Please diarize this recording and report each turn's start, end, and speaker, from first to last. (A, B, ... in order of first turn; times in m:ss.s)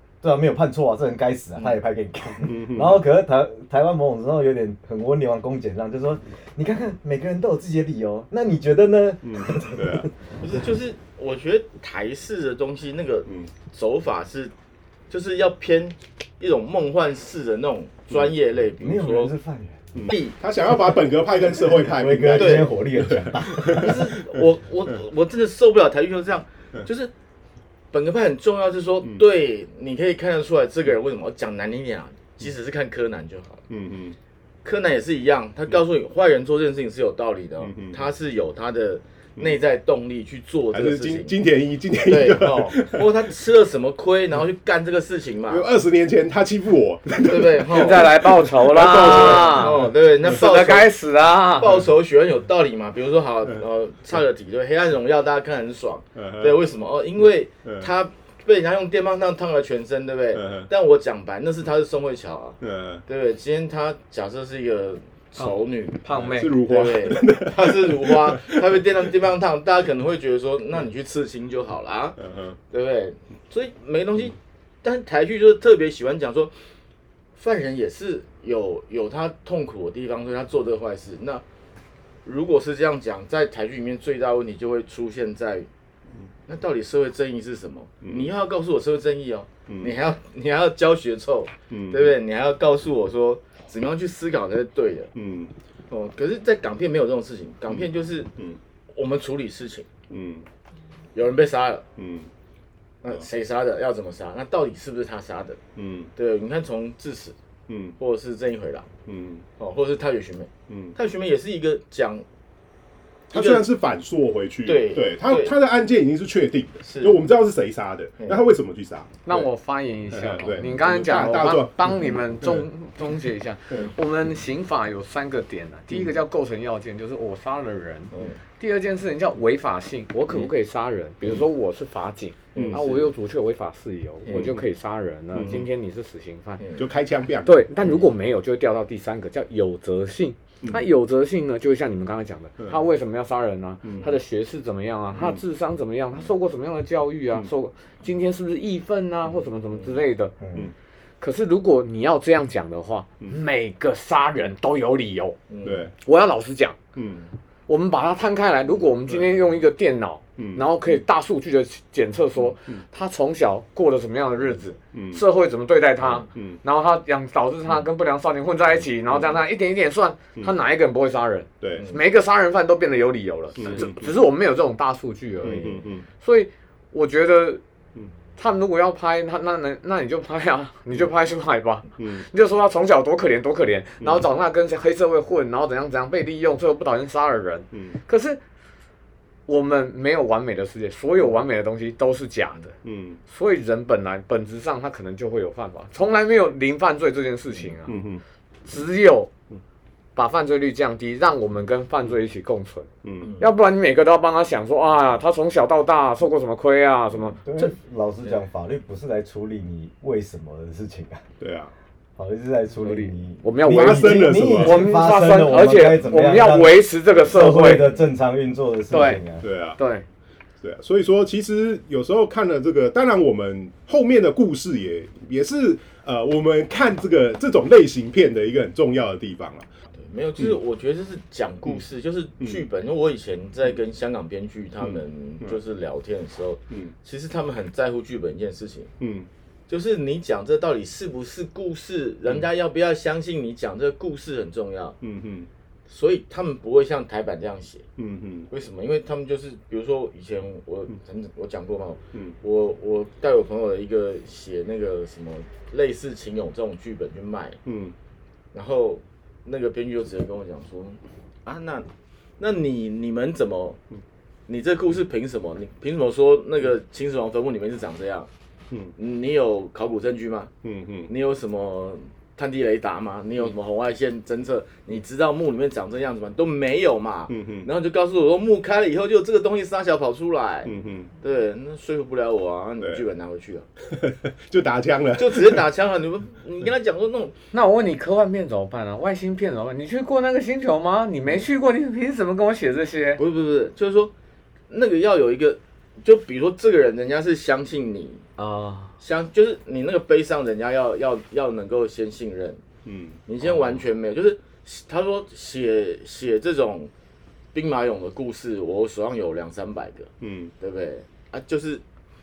0:00.2-0:10.1 A
0:02.4-0:03.0 B
0:09.2-0:10.1 B
0:10.4-0:14.5 C
0:15.1-0:19.3 C
0:18.8-0:19.8 A
0:19.9-0:24.4 B
0:20.1-0:21.0 C
0:21.8-0:23.9 A
0:22.3-0:22.7 C
0:23.7-0:27.1 C
0:27.9-0:33.6 C
0:33.7-0:34.2 B
0:34.6-0:41.4 C
0:37.6-0:38.0 B
0:40.7-0:43.0 B
0:42.0-0:45.6 C
0:45.5-0:49.9 B
0:47.2-0:48.2 C
0:47.7-0:51.8 D
0:48.7-0:50.9 C
0:51.6-1:12.2 C
0:56.2-0:56.6 B
0:57.6-0:57.9 B
1:00.3-1:00.7 B
1:02.6-1:03.0 B
1:05.4-1:06.6 D
1:06.1-1:08.8 B
1:12.2-1:12.6 B
1:12.7-1:16.5 C
1:17.4-1:21.4 C
1:22.2-1:25.7 C
1:26.5-1:35.1 C
1:28.0-1:28.3 B
1:29.7-1:29.9 B
1:31.7-1:32.2 B
1:35.1-1:35.5 B
1:35.9-1:38.3 C
1:37.7-1:38.6 B
1:38.9-1:39.9 C
1:40.1-1:40.4 B
1:41.1-1:41.8 C
1:42.0-1:42.3 B
1:43.0-1:45.6 C
1:45.8-1:46.1 B
1:46.2-1:47.4 C
1:47.7-1:47.9 B
1:48.0-1:48.9 C
1:49.0-1:49.4 B
1:49.6-1:52.2 C
1:50.7-1:51.0 B
1:53.3-1:59.5 B
1:53.3-1:53.7 C
1:54.6-1:55.5 C
1:56.8-1:57.2 C
1:59.2-2:16.6 D
2:00.1-2:02.6 B
2:08.1-2:08.4 C
2:12.5-2:12.8 B
2:12.5-2:13.1 C
2:14.2-2:14.5 C
2:15.3-2:15.6 B
2:15.4-2:15.6 C
2:16.6-2:16.8 C
2:16.8-2:17.6 B
2:17.4-2:30.3 D
2:23.8-2:24.1 B
2:25.1-2:25.4 B
2:30.4-2:30.7 A
2:31.2-2:35.4 D
2:35.5-2:35.9 C
2:35.6-2:35.9 B
2:36.0-2:36.8 D
2:36.9-2:37.3 B
2:37.7-2:57.6 D
2:40.4-2:40.6 B
2:44.9-2:45.2 B
2:46.3-2:46.6 B
2:51.6-2:51.9 B
2:53.6-2:53.9 C
2:53.6-2:54.1 B
2:55.4-2:56.0 B
2:58.4-3:08.4 D
3:02.0-3:02.2 B
3:09.5-3:12.7 D
3:12.8-3:13.2 B
3:13.3-3:18.0 D
3:17.9-3:18.2 B
3:18.6-3:19.3 D
3:20.1-3:22.9 D
3:23.0-3:23.4 B
3:23.4-3:27.7 D
3:27.4-3:31.2 A
3:31.4-3:31.7 B
3:32.2-3:39.4 A
3:32.8-3:37.9 D
3:33.6-3:34.8 B
3:38.9-3:39.2 D
3:39.4-3:39.8 B
3:39.8-3:40.0 D
3:40.6-3:49.7 B
3:50.0-3:58.9 C
3:52.4-3:52.6 B
3:54.8-3:55.6 B
3:59.0-3:59.3 B
3:59.7-4:05.0 C
4:05.0-4:05.5 B
4:05.9-4:07.9 C
4:08.0-4:08.5 B
4:08.5-4:17.6 C
4:17.6-4:17.9 B
4:18.5-4:21.9 C
4:22.4-4:23.8 C
4:24.5-4:28.3 C
4:29.0-4:30.5 C
4:30.6-4:31.1 B
4:31.1-4:43.7 C
4:37.3-4:37.7 B
4:40.6-4:41.1 B
4:43.8-4:45.6 B
4:45.2-4:47.3 C
4:47.5-4:53.2 D
4:53.2-4:54.1 C
4:54.7-4:58.3 C
4:58.4-4:59.0 D
4:59.0-5:02.6 C
5:02.8-5:03.2 B
5:03.3-5:06.9 C
5:07.5-5:11.8 C
5:10.2-5:10.5 B